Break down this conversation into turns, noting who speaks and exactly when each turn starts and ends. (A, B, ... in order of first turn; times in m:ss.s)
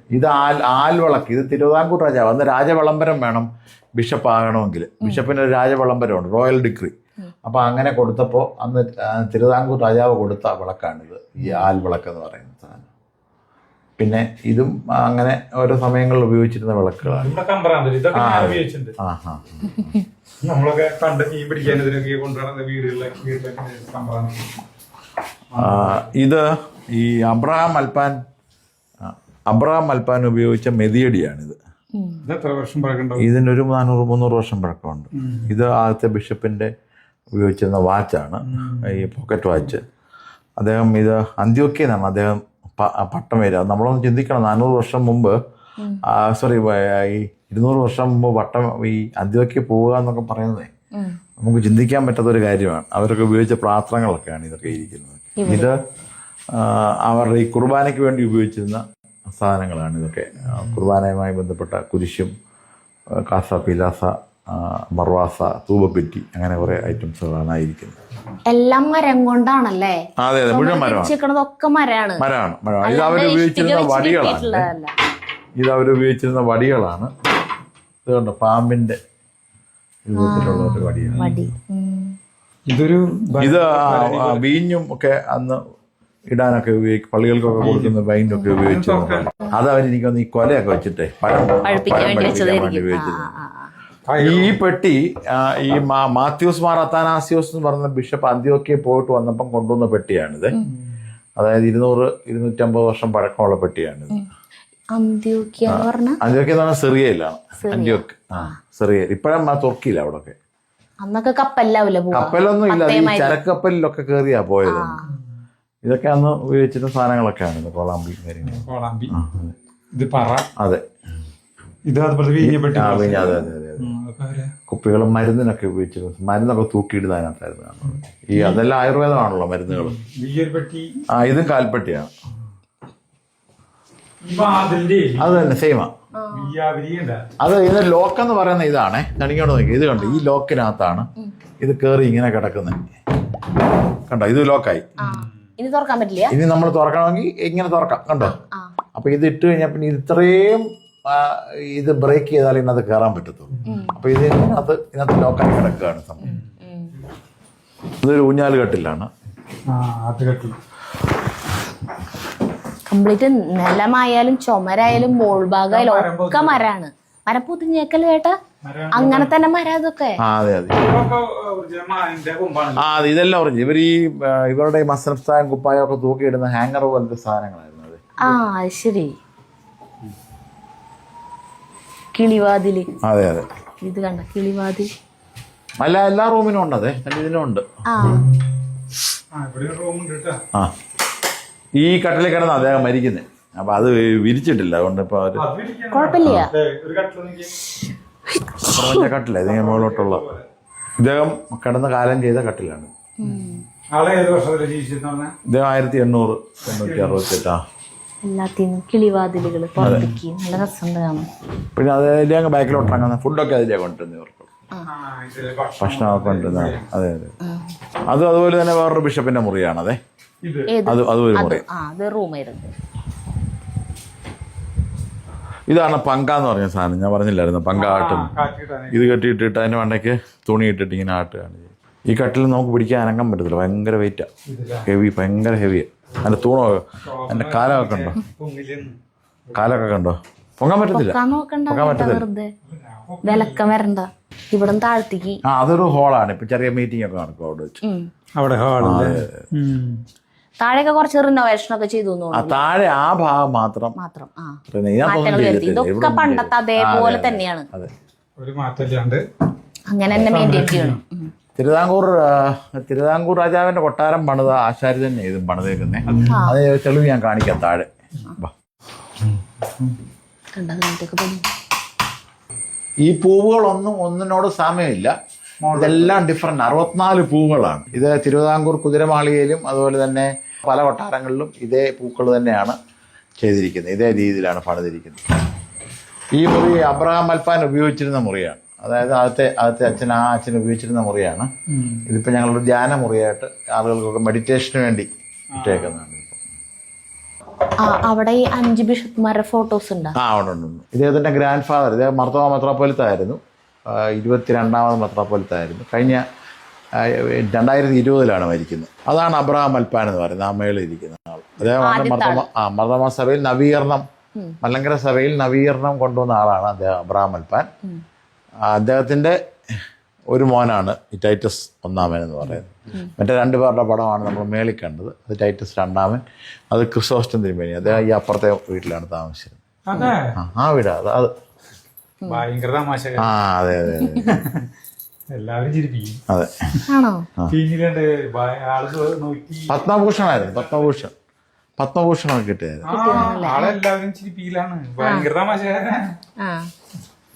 0:00.1-0:06.9 A
0:05.0-0:05.3 B
0:07.4-0:12.9 A
0:14.0-0:17.3 A
0:17.0-0:19.0 C
0:18.1-0:20.0 A
0:20.4-0:24.6 C
0:25.5-0:26.1 C
0:25.6-0:28.2 A
0:29.0-0:31.6 A
0:32.0-0:32.2 B
0:32.2-0:33.3 C
0:33.2-0:36.7 A
0:35.2-0:35.6 C
0:37.4-0:39.8 A
0:38.5-0:39.1 C
0:40.6-0:45.4 A
0:46.1-0:50.7 A
0:51.4-0:55.8 A
0:55.4-0:55.7 B
0:56.5-0:58.8 A
0:59.3-1:02.3 A
1:03.2-1:08.0 A
1:08.5-1:12.2 B
1:10.2-1:11.1 A
1:12.2-1:14.7 A
1:12.8-1:14.9 B
1:15.6-1:17.1 A
1:18.0-1:19.0 A
1:20.0-1:21.3 A
1:20.2-1:22.2 B
1:22.7-1:24.5 C
1:23.4-1:25.6 A
1:26.3-1:33.4 A
1:27.6-1:28.0 C
1:28.5-1:29.3 C
1:31.6-1:33.7 B
1:34.1-1:34.6 C
1:34.2-1:40.6 A
1:41.4-1:44.2 A
1:44.9-1:46.2 B
1:45.7-1:50.4 A
1:47.6-1:48.6 B
1:51.0-1:53.4 B
1:52.1-1:55.0 A
1:54.7-1:55.1 B
1:55.8-1:59.5 A
1:58.4-1:59.1 C
2:00.0-2:00.5 C
2:00.6-2:00.8 A
2:01.9-2:04.5 C
2:02.4-2:04.0 A
2:04.7-2:10.0 A
2:08.3-2:08.6 C
2:09.7-2:11.0 C
2:11.1-2:12.1 A
2:14.2-2:15.6 C
2:15.2-2:15.9 A
2:16.2-2:16.6 B
2:16.3-2:17.3 C
2:17.4-2:21.1 A
2:20.0-2:20.3 B
2:21.6-2:22.9 A
2:24.1-2:24.9 A
2:25.0-2:25.3 C
2:25.0-2:26.4 B
2:26.3-2:28.4 A
2:28.2-2:28.7 B
2:29.0-2:36.4 A
2:33.7-2:34.0 B
2:36.2-2:36.9 B
2:38.0-2:39.1 A
2:39.7-2:40.6 C
2:42.9-2:48.4 B
2:45.7-2:46.7 C
2:48.6-2:49.3 C
2:48.9-2:50.2 B
2:50.2-2:50.8 A
2:50.8-2:52.9 C
2:52.8-2:58.0 A
2:58.2-2:59.2 B
3:02.1-3:02.9 B
3:03.0-3:03.5 A
3:03.8-3:04.9 B
3:05.8-3:07.7 A
3:07.9-3:08.2 B
3:09.3-3:10.4 C
3:11.8-3:15.4 A
3:15.4-3:17.7 C
3:15.9-3:16.5 B
3:16.2-3:16.5 A
3:18.4-3:19.1 B
3:18.7-3:20.3 A
3:19.4-3:20.5 C
3:21.0-3:22.9 A
3:23.2-3:23.6 B
3:23.3-3:25.4 C
3:25.5-3:27.6 A
3:26.6-3:27.3 C
3:28.2-3:31.3 B
3:29.8-3:30.2 C
3:29.8-3:30.1 A
3:31.8-3:34.5 A
3:34.9-3:36.9 C
3:35.8-3:37.4 A
3:37.4-3:37.7 B
3:38.1-3:40.0 A
3:40.4-3:40.7 C
3:40.7-3:42.7 B
3:40.8-3:41.6 A
3:45.7-3:48.3 A
3:47.8-3:49.2 C
3:48.9-3:54.3 A
3:54.5-3:54.9 C
3:54.9-3:58.2 A
3:57.0-3:59.0 C
3:59.5-4:02.2 A
4:00.9-4:02.5 B
4:02.7-4:03.6 C
4:03.2-4:05.4 B
4:05.4-4:07.8 A
4:07.8-4:08.1 B
4:08.4-4:10.0 C
4:08.8-4:09.5 A
4:10.6-4:12.6 B
4:12.3-4:14.0 A
4:14.0-4:17.7 B
4:14.7-4:17.9 A
4:18.4-4:19.2 C
4:19.9-4:21.3 B
4:20.1-4:20.6 A
4:20.2-4:21.0 C
4:21.6-4:28.5 A
4:26.1-4:26.4 C
4:26.3-4:26.6 B
4:30.6-4:31.4 B
4:33.0-4:35.2 A
4:35.6-4:36.2 C
4:35.7-4:42.8 A
4:43.4-4:45.2 A
4:46.4-4:51.5 A
4:51.7-4:52.0 C
4:52.0-4:56.4 A
4:55.5-4:56.0 C
4:57.8-5:00.2 B
5:00.2-5:03.4 A
5:03.9-5:06.2 A
5:07.0-5:14.0 A
5:11.8-5:12.5 B
5:14.6-5:17.7 A
5:18.7-5:19.4 A
5:20.3-5:29.6 A
5:29.9-5:30.4 C
5:30.4-5:31.3 A
5:32.3-5:33.3 C
5:33.2-5:34.4 A
5:34.0-5:34.3 B
5:34.3-5:34.7 C
5:35.3-5:36.2 C
5:36.3-5:36.7 A
5:36.9-5:37.3 B
5:37.5-5:41.1 C
5:39.7-5:41.1 A
5:41.8-5:43.3 A
5:42.9-5:43.8 B
5:42.9-5:46.2 C
5:45.0-5:45.3 B
5:46.4-5:46.7 B